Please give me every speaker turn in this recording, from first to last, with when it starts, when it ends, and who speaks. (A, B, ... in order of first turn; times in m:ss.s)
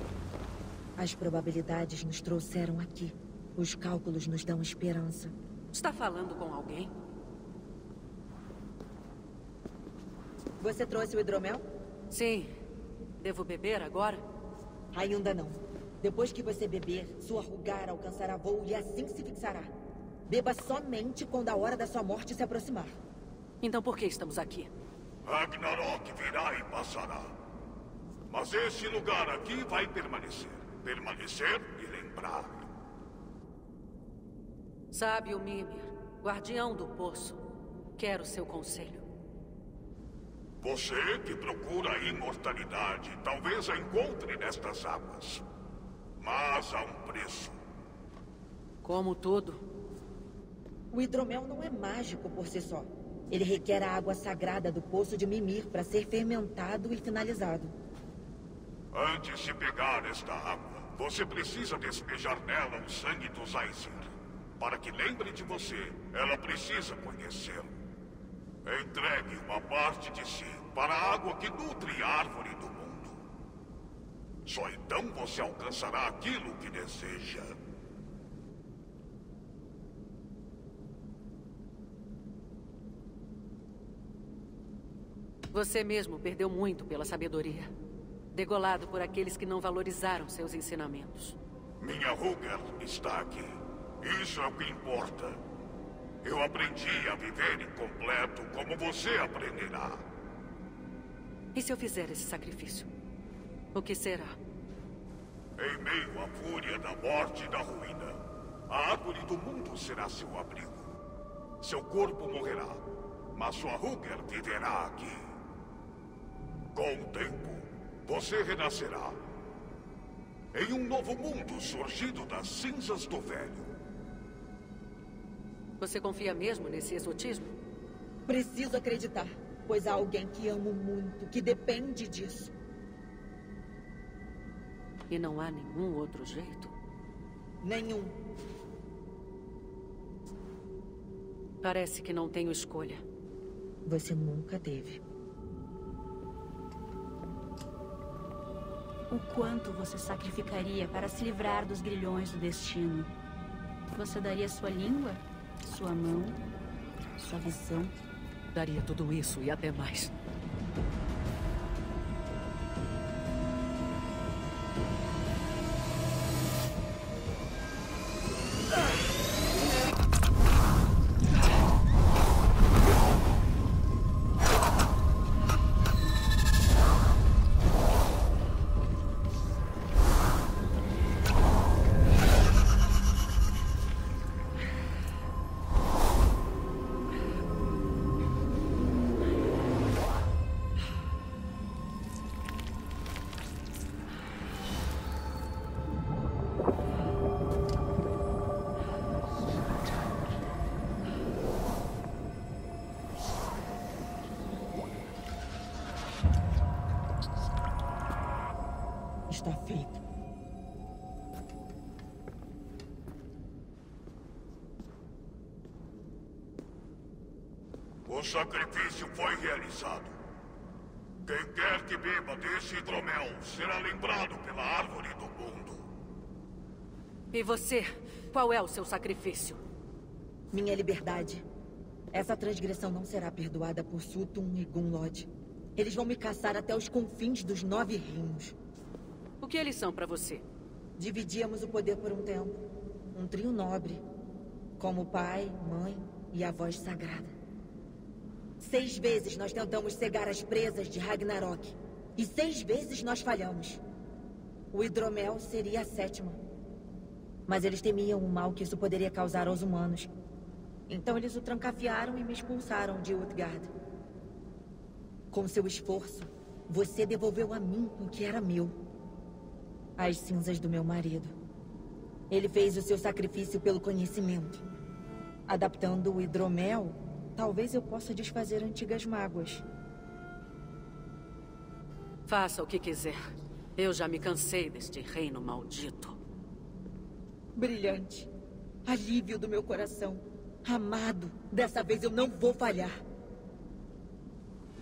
0:01.0-0:05.4 A
0:05.7-0:06.9 B
0:10.6-0:11.6 A
0:12.1-0:12.5 B
0:13.2-0:14.2 B
0:14.9-0:19.7 A
0:20.3-0:23.0 A
0:23.6-0:24.7 B
0:25.2-0:27.3 C
0:28.3-0:32.7 C
0:34.9-0:37.4 B
0:38.0-0:39.1 B
0:40.6-0:45.4 C
0:46.2-0:47.6 C
0:48.8-0:49.6 B
0:50.9-0:57.8 A
0:58.9-1:07.8 C
1:08.6-1:13.2 C
1:14.5-1:17.6 C
1:25.5-1:27.7 B
1:28.3-1:31.4 B
1:31.8-1:35.4 C
1:36.2-1:40.0 C
1:41.5-1:42.9 B
1:43.7-1:44.4 B
1:45.6-1:50.9 C
1:51.6-1:52.8 C
1:53.3-1:55.3 C
1:56.7-1:59.2 C
2:00.5-2:03.7 C
2:05.8-2:07.5 B
2:08.3-2:12.5 A
2:15.1-2:16.7 B
2:17.6-2:18.2 A
2:21.6-2:23.0 B
2:23.8-2:25.0 A
2:29.1-2:33.1 D
2:34.0-2:36.4 D
2:37.2-2:38.0 D
2:38.5-2:40.1 B
3:29.3-3:30.0 A
3:38.1-3:40.2 C
3:41.2-3:45.8 C
3:47.3-3:49.6 B
3:50.5-3:51.4 A
3:52.1-3:58.6 A
3:59.4-4:00.4 B
4:01.0-4:02.6 A
4:03.1-4:04.0 A
4:04.8-4:07.3 A
4:08.6-4:13.8 A
4:14.7-4:16.4 A
4:17.5-4:20.1 A
4:20.9-4:23.7 A
4:25.3-4:28.8 A
4:30.0-4:31.4 A
4:32.3-4:34.6 A
4:35.5-4:39.6 A
4:42.3-4:43.2 B
4:43.8-4:46.2 B
4:47.6-4:48.3 A
4:48.9-4:53.0 A